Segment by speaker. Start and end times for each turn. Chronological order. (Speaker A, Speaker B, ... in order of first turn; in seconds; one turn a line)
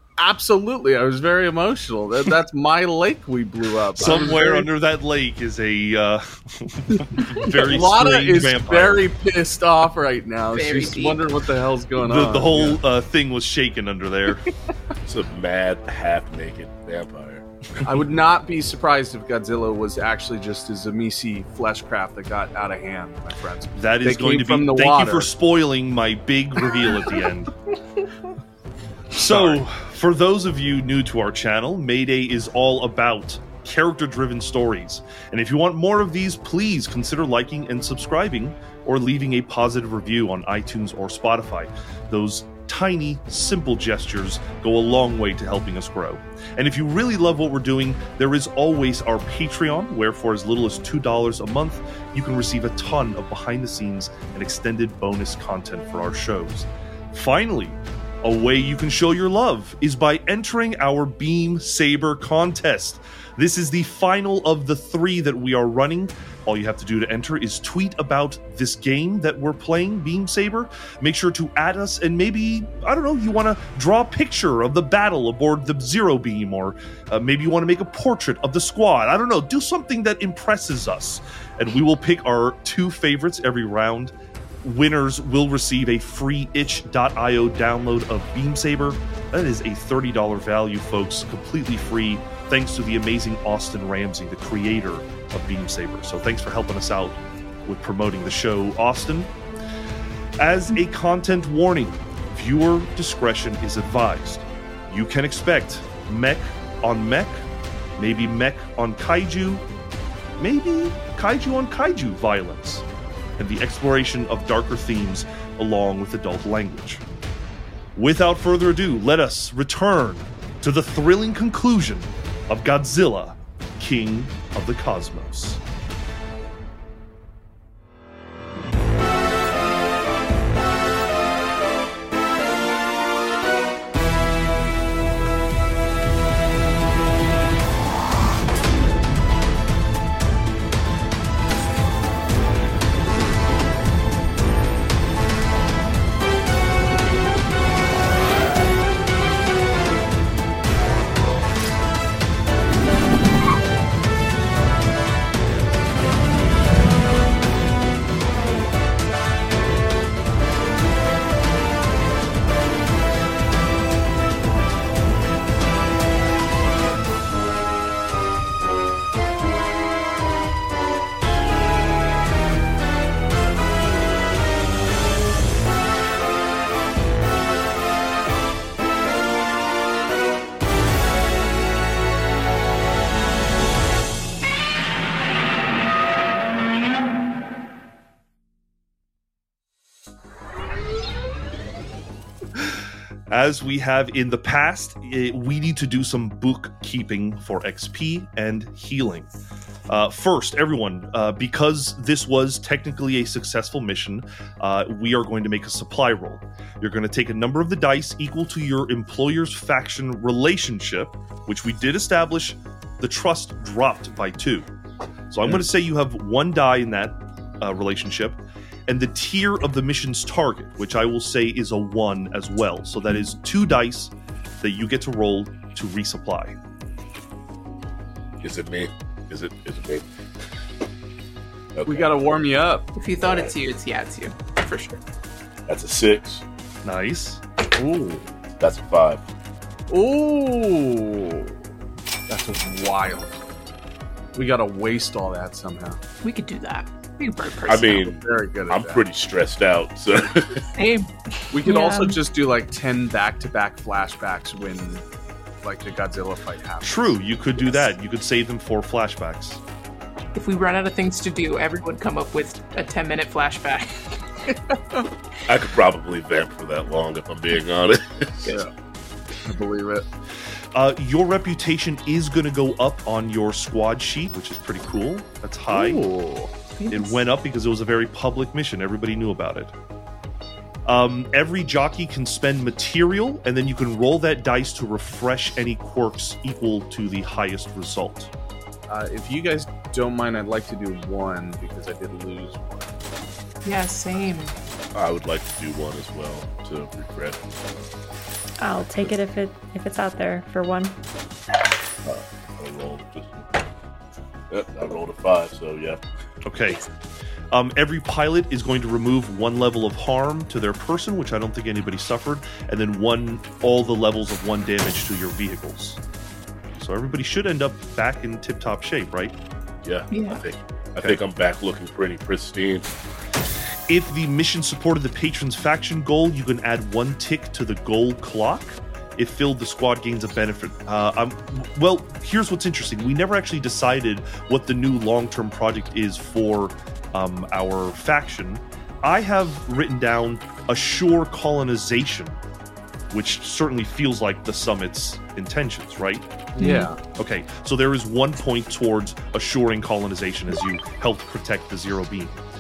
Speaker A: 0.2-4.7
Speaker B: 4.0-9.1
Speaker A: 6.9-12.8
Speaker C: 10.5-11.3
Speaker B: 12.0-14.4
Speaker D: 15.1-17.4
Speaker A: 17.8-25.3
Speaker B: 23.7-27.5
Speaker B: 29.1-84.1
Speaker A: 29.3-29.6
Speaker B: 84.6-99.3
Speaker B: 100.4-107.4
Speaker B: 108.0-109.7
Speaker B: 110.4-112.8
Speaker B: 113.4-117.0
Speaker B: 118.0-125.6
Speaker B: 193.3-199.3
Speaker B: 199.9-214.7
Speaker B: 215.3-226.6
Speaker D: 228.4-230.1
Speaker D: 231.7-232.1
Speaker A: 231.9-232.9
Speaker C: 232.9-235.0
Speaker D: 233.2-233.5
Speaker D: 235.7-236.4
Speaker B: 236.8-237.4
Speaker A: 237.7-238.3
Speaker D: 238.6-239.2
Speaker A: 239.9-241.5
Speaker A: 242.3-243.3
Speaker A: 244.3-246.0
Speaker C: 246.2-248.1
Speaker D: 247.7-250.7
Speaker A: 248.0-249.0
Speaker C: 250.7-251.5
Speaker A: 251.5-255.0
Speaker E: 251.6-252.2
Speaker A: 255.6-257.2
Speaker B: 256.8-259.6
Speaker C: 260.3-264.5
Speaker A: 264.5-265.1
Speaker D: 265.5-268.6
Speaker A: 269.4-270.0
Speaker B: 270.8-276.1
Speaker A: 275.7-276.5
Speaker C: 276.8-277.2
Speaker B: 276.9-279.7
Speaker B: 280.9-288.3
Speaker A: 288.9-292.9
Speaker C: 293.6-294.6
Speaker D: 294.9-297.8
Speaker E: 298.6-301.0
Speaker D: 302.0-303.5
Speaker D: 304.5-306.0
Speaker B: 306.4-306.9
Speaker B: 307.5-316.0
Speaker B: 316.8-319.4
Speaker D: 319.8-322.9
Speaker C: 320.1-320.4
Speaker B: 323.9-342.4
Speaker B: 343.1-346.3
Speaker A: 346.6-347.0
Speaker C: 346.6-346.9
Speaker B: 347.1-352.4